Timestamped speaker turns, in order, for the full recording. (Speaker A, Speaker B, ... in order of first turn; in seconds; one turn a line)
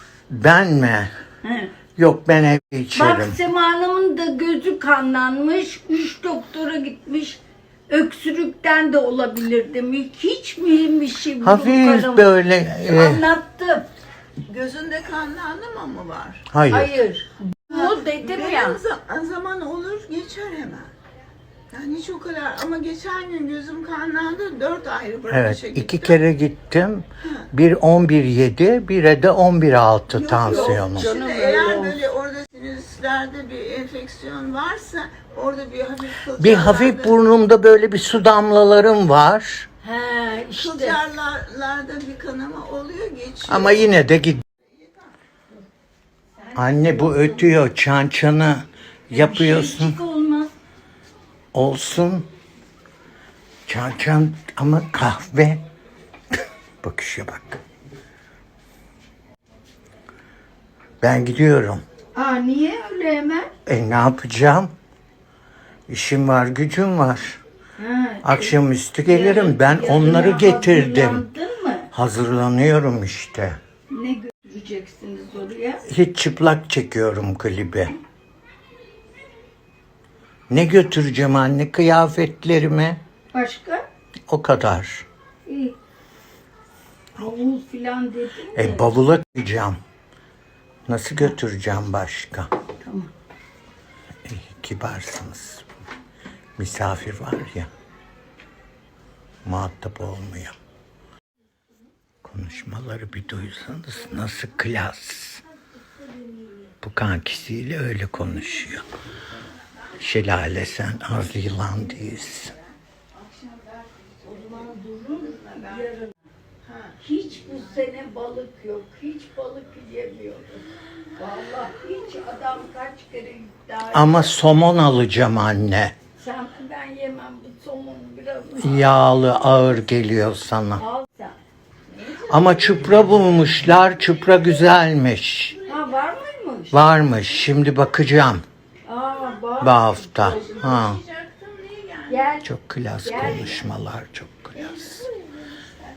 Speaker A: 0.3-1.1
Speaker B: 1.4-1.7
Speaker A: 2.0-3.4
Speaker B: 2.9-13.9
Speaker A: 11.4-13.2
Speaker C: 14.5-16.4
Speaker A: 16.5-16.9
Speaker B: 16.7-18.8
Speaker C: 17.7-20.9
Speaker C: 21.7-26.2
Speaker A: 25.3-31.1
Speaker C: 30.1-37.2
Speaker B: 30.4-32.0
Speaker A: 36.4-39.7
Speaker B: 39.8-41.0
Speaker C: 40.5-43.9
Speaker A: 43.5-44.4
Speaker B: 46.5-47.5
Speaker A: 46.5-50.0
Speaker B: 49.1-50.5
Speaker A: 51.5-52.2
Speaker A: 53.7-55.6
Speaker A: 56.8-57.6
Speaker A: 61.0-61.8
Speaker B: 62.1-63.5
Speaker A: 63.7-64.7
Speaker A: 65.9-67.4
Speaker B: 67.8-71.9
Speaker A: 68.2-71.2
Speaker A: 71.9-73.6
Speaker B: 73.9-75.8
Speaker A: 75.9-77.9
Speaker A: 80.5-83.0
Speaker B: 83.3-83.8
Speaker A: 84.3-85.0
Speaker B: 85.5-85.8
Speaker B: 87.2-88.9
Speaker A: 88.5-89.8
Speaker A: 90.9-92.5
Speaker B: 92.8-93.1
Speaker A: 94.2-95.6
Speaker A: 96.6-97.7
Speaker A: 99.4-100.5
Speaker A: 102.2-105.4
Speaker A: 106.8-108.8
Speaker A: 110.0-112.5
Speaker C: 113.1-115.9
Speaker B: 114.2-116.1
Speaker C: 116.6-117.0
Speaker B: 117.0-120.6
Speaker B: 121.2-124.4
Speaker A: 123.9-125.9
Speaker B: 126.2-129.2
Speaker A: 128.5-130.8
Speaker B: 130.8-131.3
Speaker C: 131.9-134.6
Speaker A: 132.3-135.6
Speaker C: 135.5-135.9
Speaker B: 135.7-136.8
Speaker A: 136.7-138.4
Speaker B: 138.8-140.6
Speaker A: 139.6-141.0
Speaker C: 140.2-142.4
Speaker B: 142.1-142.5
Speaker A: 142.4-144.7
Speaker B: 143.0-143.7
Speaker C: 144.6-145.7